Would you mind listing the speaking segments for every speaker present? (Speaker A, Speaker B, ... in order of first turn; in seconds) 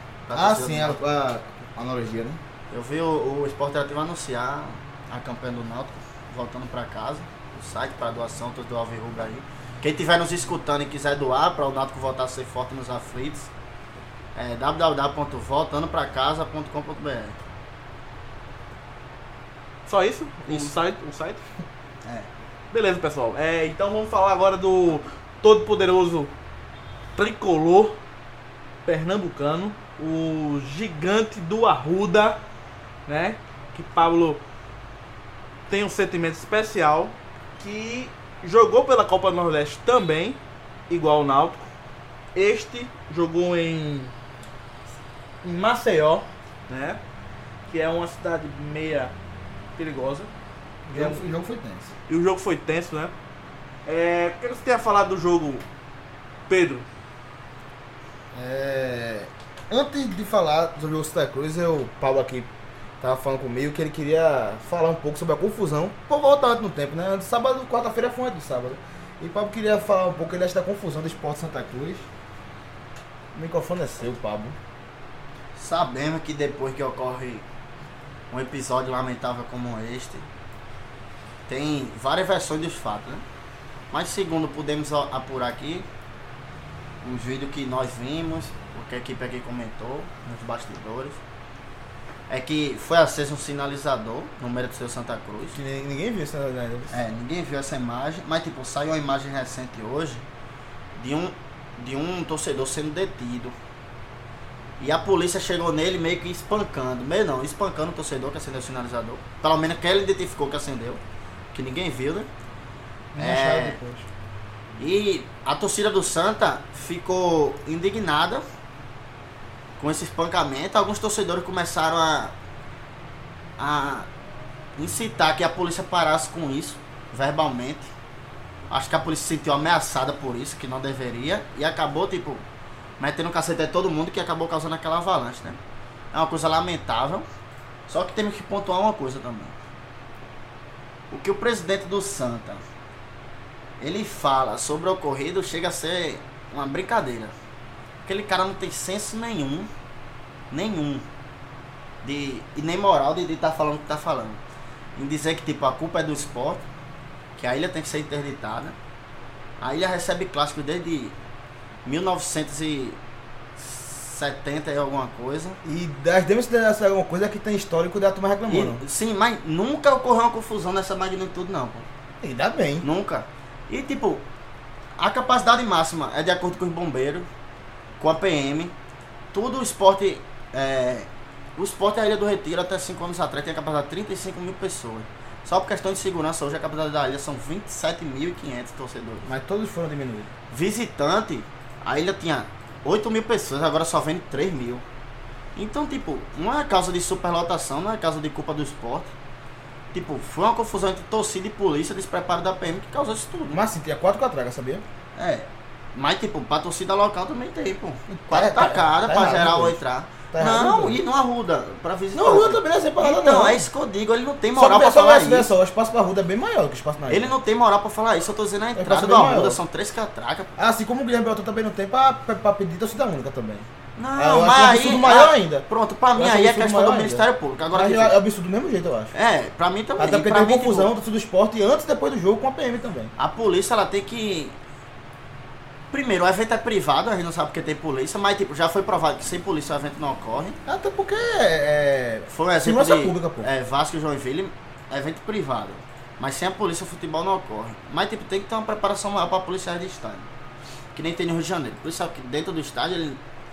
Speaker A: 0.2-1.0, 2.7-13.5, 14.3-17.4, 20.5-20.7, 75.5-77.5, 78.3-80.2, 81.5-83.2, 83.9-85.8, 87.0-91.2, 92.3-95.6, 96.9-100.2, 100.9-103.5, 104.8-111.0, 111.5-112.3, 113.2-113.8, 114.8-118.4, 119.8-122.3, 123.6-124.1, 124.8-127.9, 128.7-132.4, 133.0-135.6, 136.1-137.3, 137.9-139.5, 141.1-142.6, 143.8-147.3, 148.1-149.7, 150.5-151.0, 152.0-154.4, 154.9-156.6, 157.4-158.7, 159.6-161.1, 161.8-163.0, 163.6-165.6, 168.5-171.8, 172.8-174.2, 175.0-177.3, 178.0-178.7, 179.3-189.3, 190.5-194.8, 195.5-199.1, 199.9-203.6, 205.2-215.5, 217.1-220.5, 223.9-228.2, 229.1-230.9, 233.2-234.6, 235.9-240.6, 242.3-250.3, 250.9-253.2
Speaker B: 0.3-2.4, 50.9-51.9, 58.3-62.5, 63.0-72.1, 73.3-74.5, 95.5-97.0, 113.2-114.0, 165.6-168.8, 172.2-172.9, 189.2-190.3, 203.5-204.8, 208.1-209.8, 210.3-211.0, 212.1-213.7, 214.5-217.3, 218.8-219.6, 220.6-229.1, 230.0-233.1, 240.7-243.5
Speaker C: 19.9-21.4, 22.7-26.3, 27.1-28.0, 28.9-32.4, 33.1-34.4, 35.7-40.4, 40.9-41.7, 42.3-44.1, 45.4-47.0, 47.7-49.1, 49.8-50.3, 50.9-51.2, 52.1-53.1, 53.9-55.6, 56.5-56.9, 113.2-113.9